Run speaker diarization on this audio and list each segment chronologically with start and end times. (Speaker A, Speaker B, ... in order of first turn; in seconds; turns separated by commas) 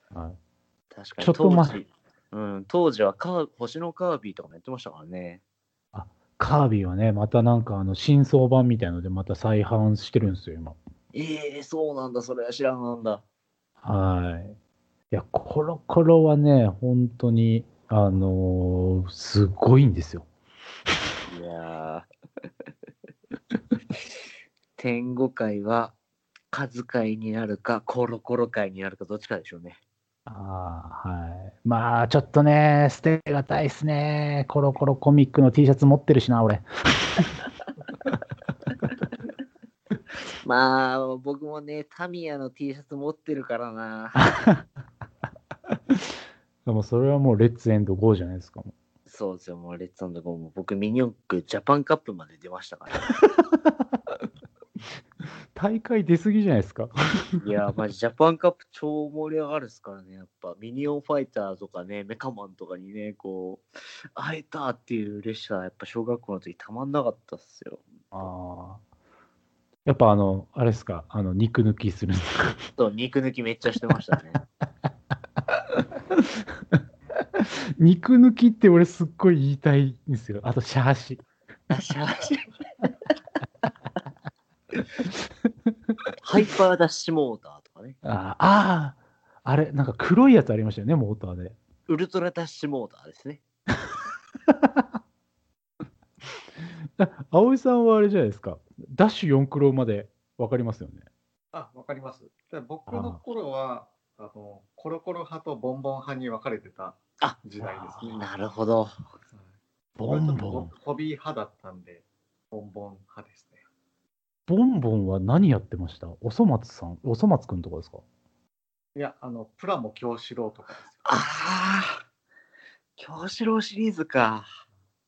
Speaker A: 0.1-0.4, Speaker B: 0.9-5.4, Speaker A: 1.2-1.8, Speaker A: 5.9-10.8, Speaker B: 11.1-13.2, Speaker A: 13.8-14.6, Speaker A: 15.1-20.3, Speaker B: 21.3-22.1, Speaker B: 24.8-25.9, Speaker B: 26.5-29.8, Speaker A: 30.2-37.4, Speaker B: 40.4-44.3, Speaker A: 44.2-44.6, Speaker A: 45.7-46.1, Speaker A: 46.6-48.7, Speaker B: 49.1-53.1, Speaker A: 53.2-54.2, Speaker A: 55.5-57.4, Speaker B: 57.4-67.8, Speaker A: 68.1-68.8, Speaker A: 69.8-72.7, Speaker B: 72.8-74.4, Speaker A: 75.5-76.8, Speaker A: 77.3-81.2, Speaker B: 81.7-82.5, Speaker B: 86.2-88.0, Speaker A: 88.0-91.6, Speaker B: 91.9-93.4, Speaker A: 94.5-94.9, Speaker A: 96.6-101.0, Speaker C: 101.5-108.3, Speaker A: 102.9-103.2, Speaker B: 108.0-109.0, Speaker A: 110.0-110.7, Speaker C: 110.1-113.6, Speaker A: 114.5-118.0, Speaker C: 118.9-121.2, Speaker B: 121.0-122.0, Speaker B: 123.0-124.5